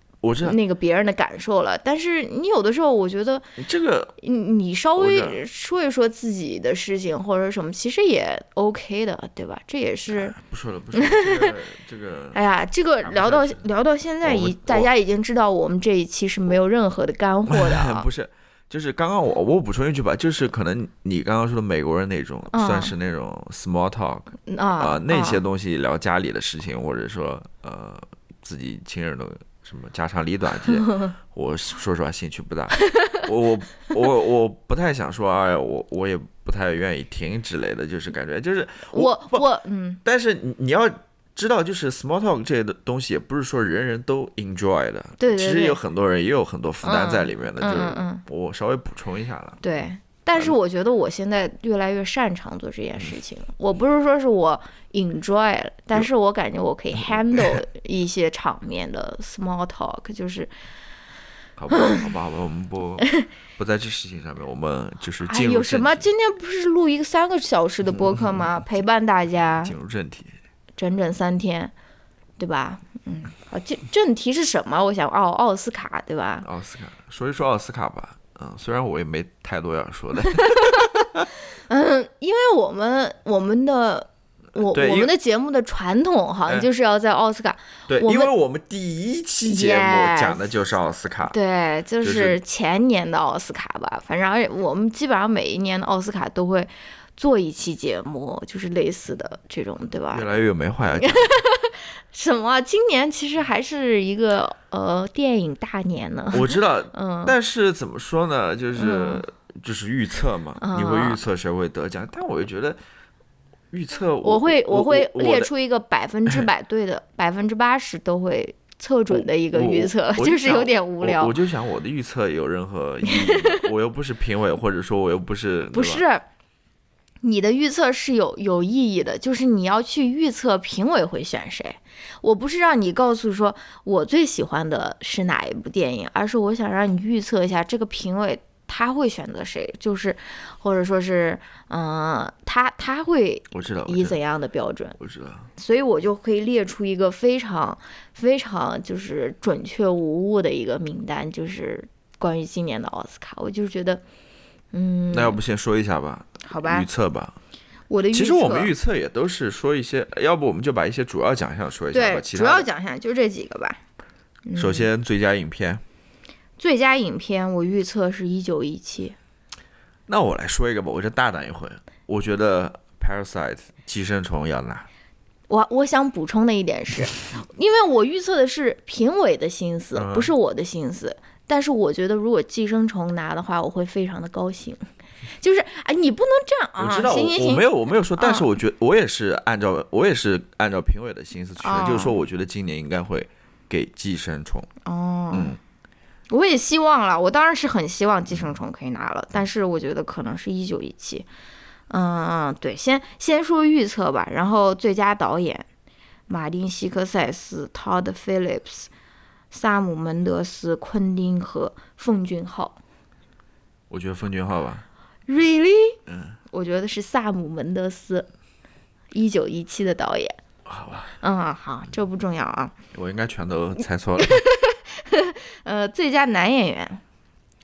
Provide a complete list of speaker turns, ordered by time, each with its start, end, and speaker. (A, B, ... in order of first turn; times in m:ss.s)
0:00.2-0:00.6 A
0:00.4-0:03.4 B
0:03.6-0:04.2 A
0:04.2-0:10.4 B
0:05.0-0:05.4 A
0:10.1-0:12.4 A
0:11.0-0:11.5 B
0:12.3-0:18.1 B
0:13.0-0:13.7 A
0:14.2-0:14.9 A
0:17.5-0:39.4 A
0:22.5-0:22.9 B
0:24.5-0:25.4 B
0:30.8-0:31.1 B
0:32.8-0:33.2 B
0:38.9-0:40.0 B
0:40.0-0:49.6 A
0:45.2-0:45.8 B
0:46.8-0:48.2 B
0:49.6-1:00.5 B
0:57.1-0:57.6 A
1:01.6-1:06.0 A
1:01.7-1:02.0 B
1:05.2-1:09.7 B
1:07.9-1:08.6 A
1:09.6-1:10.4 A
1:10.8-1:11.7 B
1:12.4-1:16.5 B
1:16.4-1:21.3 A
1:20.3-1:20.9 B
1:21.5-1:28.3 B
1:24.7-1:25.1 A
1:27.9-1:31.4 A
1:29.4-1:30.4 B
1:31.3-1:40.3 B
1:32.0-1:32.4 A
1:40.1-1:41.4 A
1:41.0-1:47.4 B
1:46.3-1:52.8 A
1:48.8-1:49.2 B
1:50.6-1:51.2 B
1:53.7-1:55.5 A
1:54.2-2:01.4 B
1:59.1-2:06.0 A
2:03.0-2:03.6 B
2:05.7-2:06.2 B
2:07.2-2:25.0 B
2:23.5-2:24.2 A
2:25.0-2:25.5 A
2:25.6-2:34.0 B
2:34.7-2:35.4 B
2:35.1-2:37.4 A
2:36.4-2:36.9 B
2:37.9-2:38.7 B
2:38.1-2:42.7 A
2:41.9-2:43.8 B
2:44.5-2:44.9 B
2:44.6-2:45.8 A
2:46.6-2:49.2 B
2:50.1-2:54.9 A
2:55.5-3:04.8 B
3:00.0-3:00.3 A
3:05.4-3:08.5 B
3:06.8-3:14.7 A
3:11.6-3:12.2 B
3:14.8-3:15.6 B
3:15.3-3:15.6 A
3:16.3-3:21.3 B
3:21.9-3:25.7 B
3:26.3-3:28.9 B
3:29.5-3:32.8 B
3:33.9-3:34.8 A
3:35.3-3:36.0 B
3:36.1-3:36.4 A
3:36.5-3:38.3 B
3:39.1-3:40.4 B
3:40.6-3:41.1 A
3:41.2-3:42.7 B
3:42.9-3:44.4 A
3:44.2-3:47.0 B